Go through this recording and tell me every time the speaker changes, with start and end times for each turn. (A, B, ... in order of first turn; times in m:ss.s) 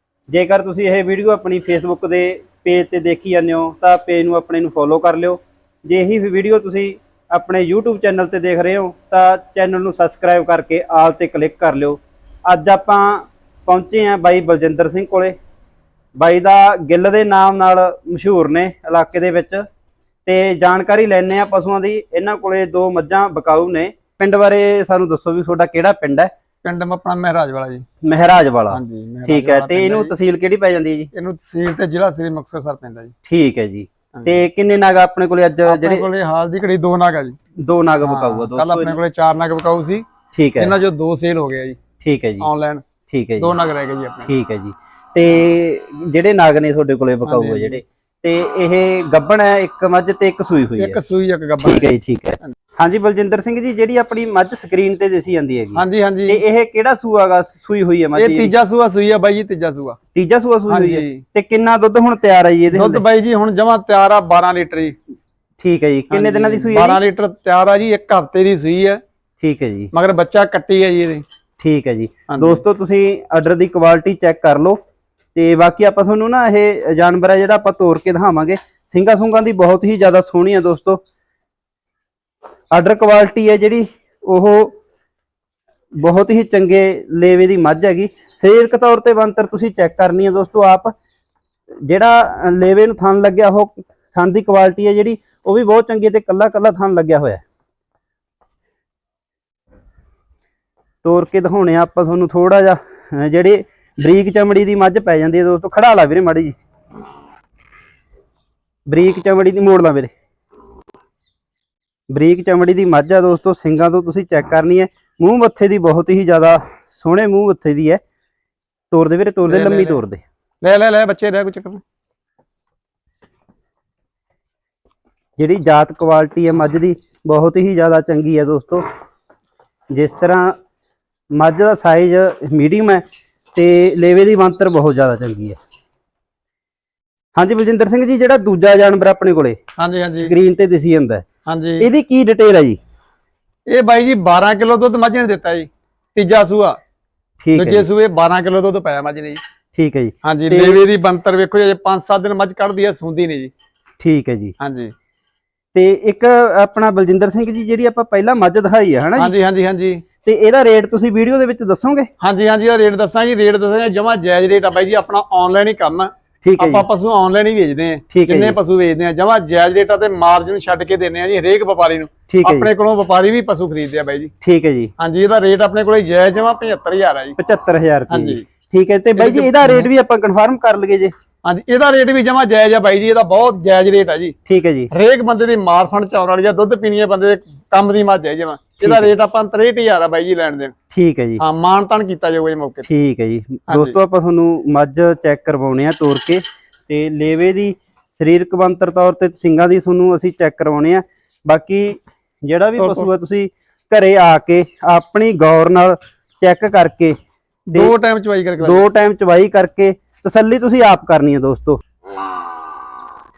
0:00.3-0:15.3 A
0:16.2-0:19.6 A
0:20.2-0:26.3 A
0:26.6-0:27.8 B
0:28.0-0:31.1 A
0:28.7-0:30.1 B
0:31.1-0:33.1 B
0:33.2-0:36.0 A
0:35.7-0:37.4 B
0:37.6-0:39.0 A
0:38.0-0:40.0 B
0:40.3-0:40.8 A
0:40.6-0:41.8 B
0:42.0-0:42.5 A
0:42.4-0:42.8 B
0:43.1-0:43.5 A
0:43.4-0:44.3 B
0:44.2-0:51.0 A
0:47.2-0:47.8 B
0:50.8-0:52.5 B
0:51.6-0:58.5 A
0:55.8-0:56.4 B
0:58.2-1:00.0 B
1:00.1-1:03.0 A
1:00.7-1:01.2 B
1:02.7-1:05.0 B
1:05.6-1:07.0 A
1:06.1-1:09.0 B
1:09.4-1:09.9 A
1:09.9-1:11.2 B
1:11.6-1:14.8 A
1:12.3-1:12.6 B
1:15.3-1:21.0 A
1:22.7-1:24.7 A
1:26.0-1:30.9 A
1:31.8-1:37.4 A
1:41.0-1:46.6 A
1:48.9-1:50.1 A
1:52.1-1:58.0 A
1:58.9-2:00.2 A
1:59.4-2:00.0 B
2:00.6-2:01.8 B
2:05.4-2:08.8 A
2:09.9-2:10.6 A
2:11.3-2:15.6 A
2:17.4-2:19.6 A
2:19.8-2:20.3 B
2:20.1-2:21.2 A
2:21.5-2:21.9 B
2:21.8-2:22.8 A
2:23.7-2:26.8 B
2:27.4-2:27.8 A
2:27.5-2:29.4 B
2:29.8-2:30.8 A
2:30.2-2:33.5 B
2:34.0-2:34.5 A
2:34.6-2:34.9 B
2:35.7-2:39.3 A
2:39.2-2:40.0 B
2:40.2-2:42.1 A
2:42.2-2:54.3 B
2:46.4-2:46.8 A
2:48.1-2:48.6 A
2:52.3-2:52.7 A
2:54.4-2:54.9 A
2:55.0-2:57.4 B
2:57.4-3:01.1 A
2:58.1-2:58.4 B
2:59.2-2:59.9 B
3:01.4-3:04.3 B
3:04.4-3:04.9 A
3:04.9-3:10.7 B
3:08.8-3:09.1 A
3:10.9-3:11.4 A
3:11.4-3:12.9 B
3:12.9-3:27.2 A
3:13.7-3:14.0 B
3:22.8-3:23.1 B
3:27.7-3:28.8 B
3:28.6-3:31.8 A